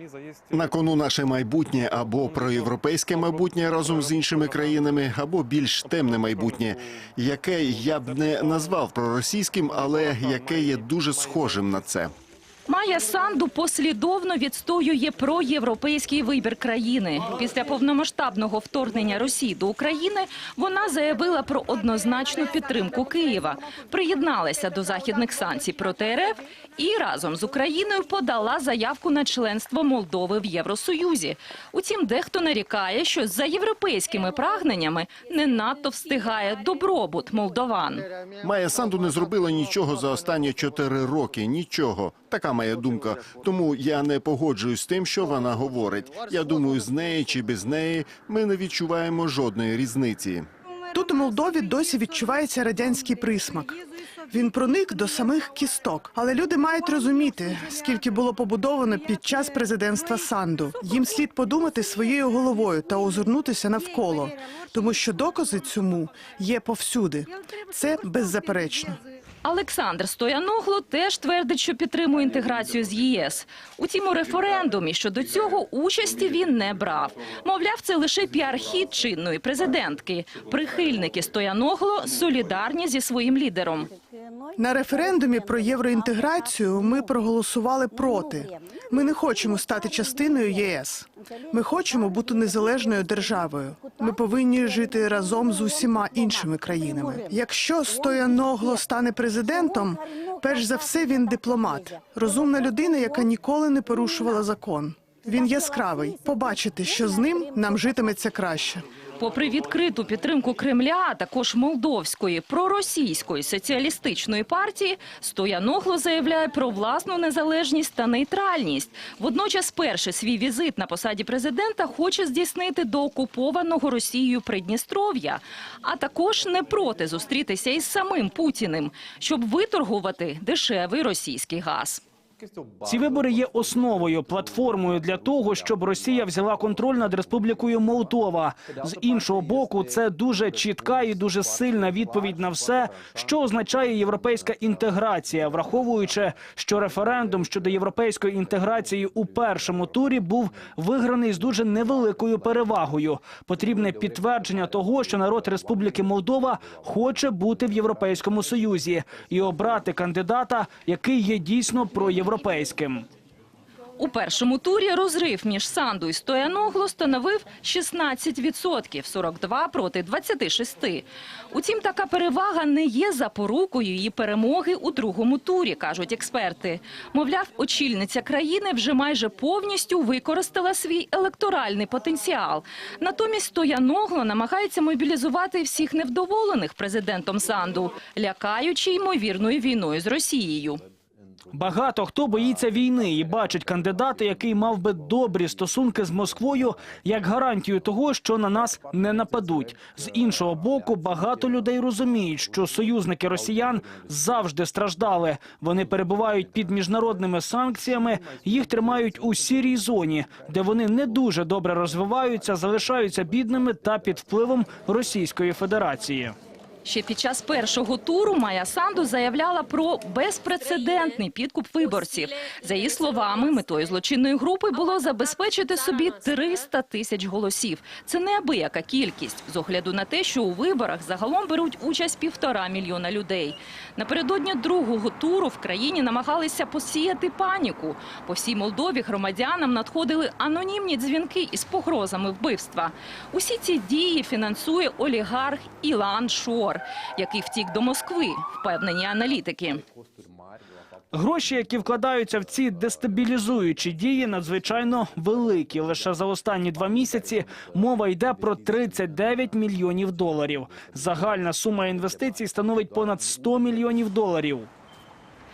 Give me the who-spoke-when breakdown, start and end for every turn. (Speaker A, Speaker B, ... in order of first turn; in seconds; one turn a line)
Speaker A: 0.5-12.1
Speaker B: 12.7-38.1
Speaker A: 38.4-50.5
Speaker C: 50.9-69.0
Speaker B: 69.4-83.9
Speaker C: 84.5-108.8
Speaker B: 109.2-132.0
Speaker D: 132.8-163.1
Speaker B: 164.0-190.8
Speaker D: 191.5-216.3
Speaker B: 216.8-249.8
Speaker D: 251.1-264.7